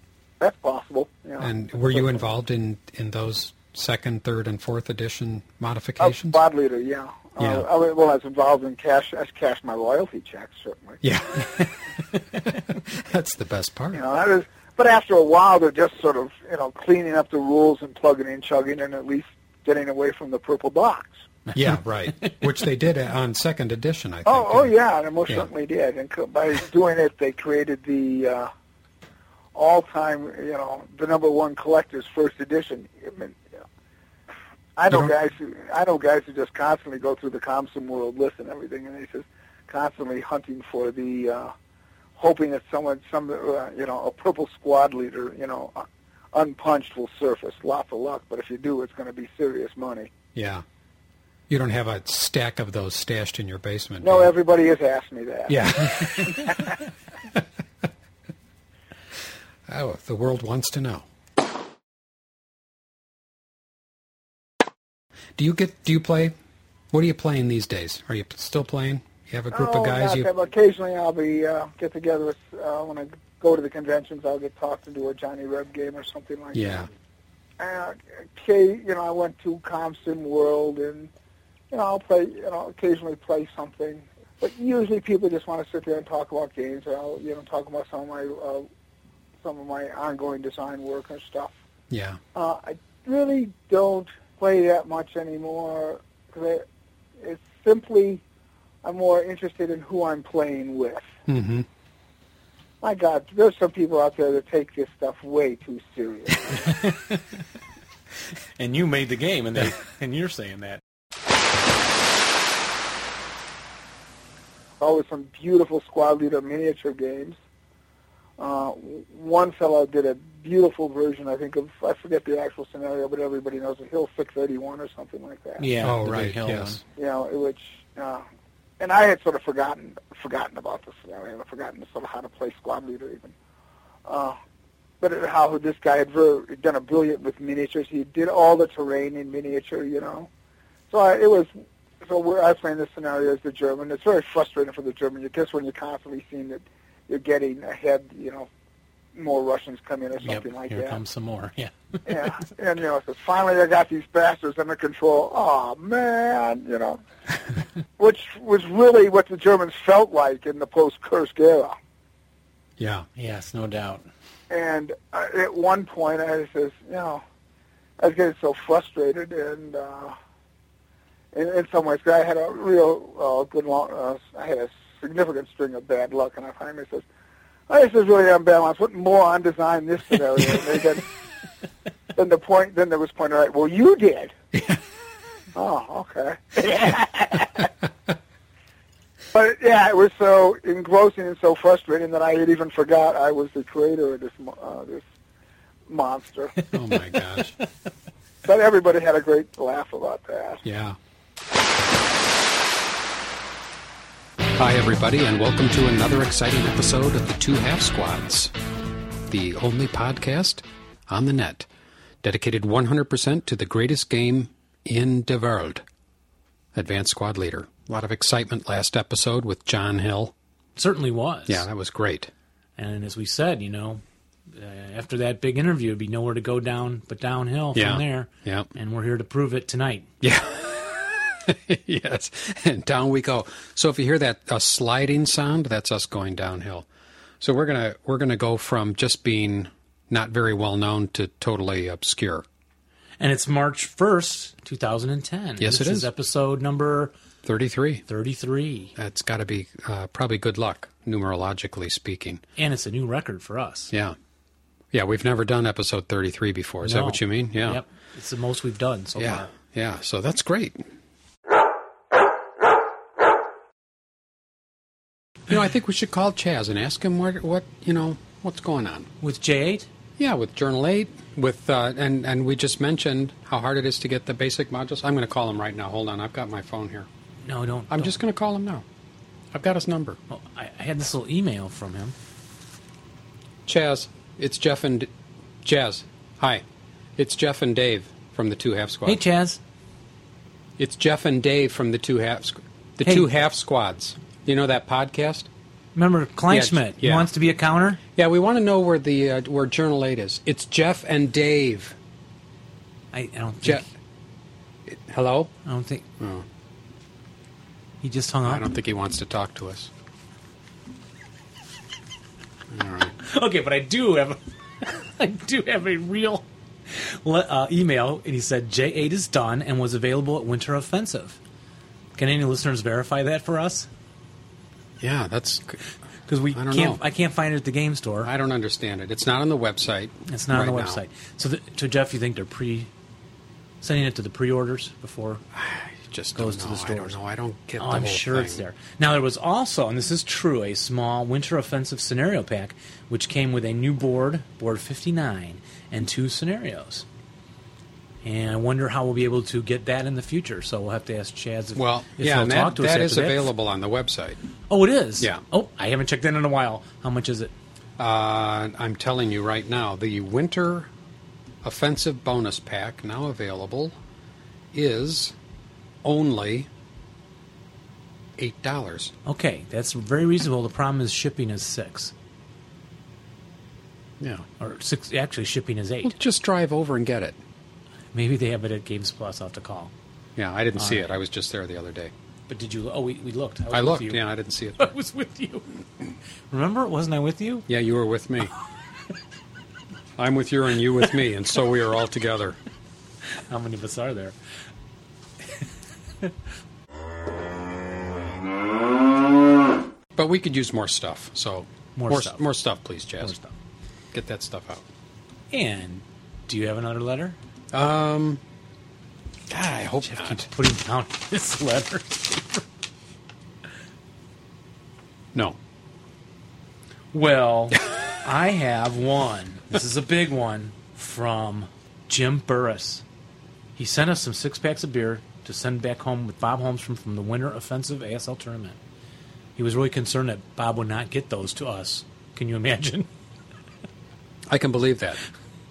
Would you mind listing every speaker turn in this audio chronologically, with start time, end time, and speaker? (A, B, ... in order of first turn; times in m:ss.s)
0:00.4-0:02.2 A
0:01.4-0:06.4 B
0:06.0-0:11.0 A
0:07.4-0:07.7 B
0:11.0-0:11.8 B
0:12.4-0:14.0 B
0:13.9-0:21.2 A
0:21.5-0:24.7 B
0:21.7-0:22.4 C
0:24.2-0:28.5 A
0:29.5-0:33.6 A
0:34.8-0:41.5 A
0:42.2-0:50.1 A
0:50.3-0:50.6 B
0:51.5-0:54.3 B
0:54.0-0:56.5 A
0:55.5-0:56.7 B
0:59.7-1:01.0 B
1:05.4-1:06.3 B
1:06.9-1:10.3 B
1:09.5-1:16.9 A
1:16.5-1:16.9 B
1:17.6-1:21.1 A
1:21.7-1:28.6 A
1:29.4-1:31.5 A
1:31.9-1:32.2 B
1:32.3-1:36.6 A
1:37.2-1:38.2 A
1:38.8-1:41.1 A
1:41.3-1:41.6 B
1:42.8-1:46.6 A
1:46.9-1:47.2 C
1:48.6-1:50.8 C
1:54.8-1:57.4 A
1:58.4-2:05.7 A
2:05.6-2:06.8 C
2:05.8-2:06.8 B
2:07.0-2:08.2 A
2:08.8-2:13.3 A
2:14.0-2:14.4 A
2:15.0-2:20.3 A
2:20.9-2:28.5 A
2:29.1-2:31.0 A
2:30.2-2:32.3 C
2:32.0-2:37.0 A
2:38.0-2:41.8 A
2:42.8-2:43.1 B
2:43.2-2:44.1 C
2:44.5-2:47.2 A
2:48.0-2:50.2 A
2:51.3-2:57.0 A
2:57.7-3:01.0 A
3:02.1-3:04.3 A
3:05.5-3:07.7 A
3:09.3-3:15.0 A
3:15.9-3:16.6 A
3:16.7-3:17.5 B
3:18.4-3:20.6 A
3:20.6-3:21.0 B
3:24.5-3:28.5 B
3:29.3-3:31.7 B
3:32.2-3:35.8 B
3:36.7-3:40.3 B
3:40.8-3:41.7 C
3:41.5-3:42.3 B
3:42.8-3:50.1 C
3:47.7-3:48.7 B
3:50.2-3:56.8 B
3:57.4-4:02.4 B
4:03.2-4:07.1 C
4:05.6-4:06.1 B
4:07.4-4:08.0 B
4:08.1-4:08.9 C
4:09.0-4:12.4 B
4:12.6-4:13.9 C
4:14.9-4:17.8 B
4:16.8-4:19.5 C
4:19.2-4:20.8 B
4:25.5-4:29.1 B
4:29.2-4:29.9 C
4:30.2-4:37.1 B
4:37.4-4:38.2 C
4:37.9-4:38.8 B
4:39.5-4:40.2 B
4:40.3-4:42.1 C
4:43.6-4:45.1 B
4:45.6-4:46.6 B
4:47.2-4:49.2 B
4:49.0-4:49.6 C
4:50.8-4:55.5 B
4:53.0-4:53.3 C
4:55.9-4:58.0 C
4:56.5-4:57.3 B
4:58.1-5:02.0 B
5:03.1-5:03.8 C
5:04.9-5:05.5 B
5:05.6-5:06.0 C
5:06.2-5:06.4 B
5:08.0-5:08.7 C
5:08.4-5:09.9 B
5:12.7-5:13.1 B
5:13.2-5:21.4 C
5:22.2-5:23.9 C
5:25.0-5:25.8 B
5:26.3-5:28.3 C
5:26.5-5:27.0 B
5:28.2-5:31.0 B
5:30.3-5:32.9 C
5:33.8-5:35.4 C
5:35.5-5:38.6 B
5:36.4-5:37.2 C
5:37.8-5:47.0 C
5:48.2-5:53.5 C
5:51.7-5:54.4 B
5:54.7-5:57.5 C
5:58.0-6:00.9 B
6:01.6-6:04.0 B
6:04.7-6:05.4 B
6:06.0-6:06.7 B
6:08.4-6:09.1 B
6:09.2-6:12.1 C
6:14.2-6:14.4 B
6:14.6-6:16.2 C
6:16.0-6:17.4 B
6:18.1-6:19.9 C
6:20.4-6:22.1 B
6:20.8-6:21.1 C
6:22.5-6:24.2 C
6:23.7-6:24.9 B
6:24.8-6:25.7 C
6:26.5-6:27.7 C
6:27.7-6:28.5 B
6:30.2-6:32.6 B
6:33.5-6:34.3 C
6:40.1-6:43.4 B
6:42.0-6:42.4 C
6:43.2-6:43.5 C
6:44.1-6:44.8 B
6:45.5-6:47.4 C
6:47.7-6:48.4 B
6:49.5-6:50.5 B
6:50.0-6:52.6 C
6:57.1-7:03.0 C
7:03.8-7:08.8 C
7:09.6-7:13.1 C
7:14.5-7:15.2 B